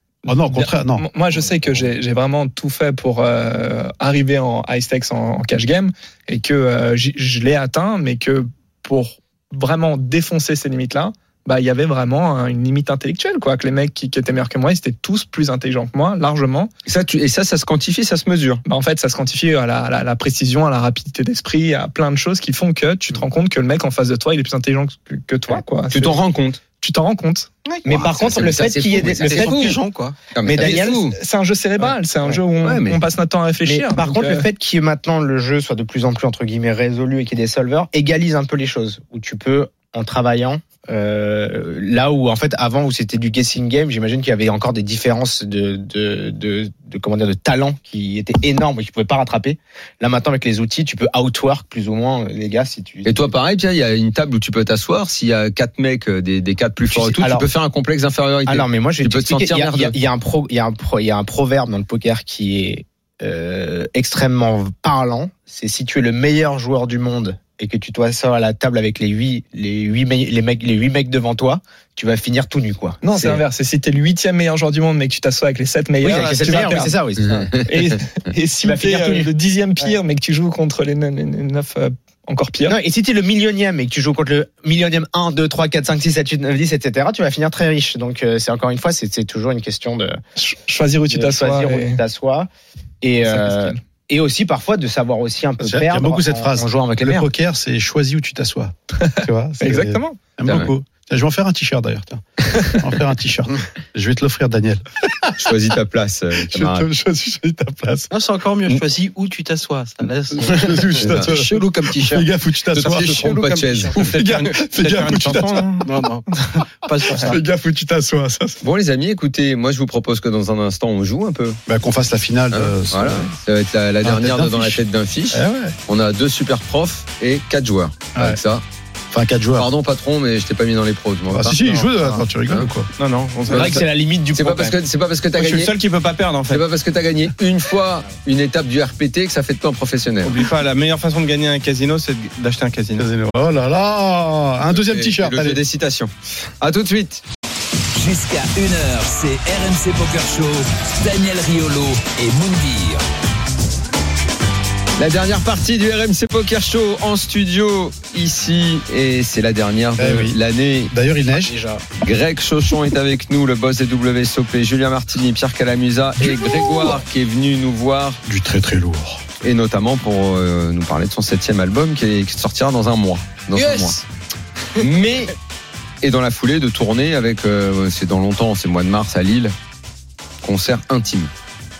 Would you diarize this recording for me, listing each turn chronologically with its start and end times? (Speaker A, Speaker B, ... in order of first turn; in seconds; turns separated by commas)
Speaker A: 0.2-1.6, Speaker B: 0.5-16.7, Speaker C: 16.9-18.6, Speaker B: 18.6-26.2, Speaker C: 25.9-26.6, Speaker B: 26.8-27.5, Speaker D: 27.8-29.8, Speaker C: 27.9-29.8, Speaker E: 29.2-30.1, Speaker C: 30.3-31.2, Speaker D: 30.4-31.0, Speaker B: 30.6-34.5, Speaker D: 31.8-32.4, Speaker C: 32.6-33.0, Speaker D: 33.6-53.3, Speaker C: 53.0-59.9, Speaker D: 56.9-57.5, Speaker D: 58.5-73.4, Speaker B: 73.0-77.0, Speaker D: 76.0-77.6, Speaker F: 76.2-76.7, Speaker B: 77.6-82.8, Speaker D: 78.6-79.3, Speaker D: 82.7-90.2, Speaker B: 90.4-92.0, Speaker D: 91.1-92.5, Speaker D: 93.0-97.3, Speaker B: 93.2-93.8, Speaker A: 95.6-105.5, Speaker B: 99.0-100.2, Speaker C: 100.4-100.7, Speaker C: 105.4-106.9, Speaker A: 106.4-108.1, Speaker E: 108.1-112.3, Speaker A: 110.4-115.8, Speaker C: 111.0-111.3, Speaker C: 112.7-114.1, Speaker E: 112.8-114.1, Speaker F: 113.9-115.8, Speaker E: 115.8-117.4, Speaker A: 117.1-118.6, Speaker C: 118.6-121.6, Speaker A: 121.7-123.3, Speaker C: 122.5-128.6, Speaker A: 124.0-125.7, Speaker A: 128.1-128.4, Speaker A: 129.1-129.7, Speaker C: 129.5-131.8, Speaker A: 131.3-132.9, Speaker F: 133.0-133.8, Speaker D: 133.5-134.8, Speaker C: 133.5-133.8, Speaker C: 134.3-135.7, Speaker F: 135.3-136.6, Speaker C: 136.5-140.4, Speaker F: 140.2-143.1, Speaker A: 142.9-145.6, Speaker C: 144.8-147.2, Speaker G: 147.9-153.0, Speaker C: 155.0-160.9, Speaker A: 160.0-160.4, Speaker A: 160.9-161.5, Speaker D: 161.2-161.8, Speaker C: 162.0-168.2, Speaker A: 166.3-166.8, Speaker A: 168.2-169.2, Speaker C: 169.4-174.0, Speaker E: 173.6-174.0, Speaker C: 174.8-175.3, Speaker C: 176.0-179.5, Speaker C: 180.4-181.3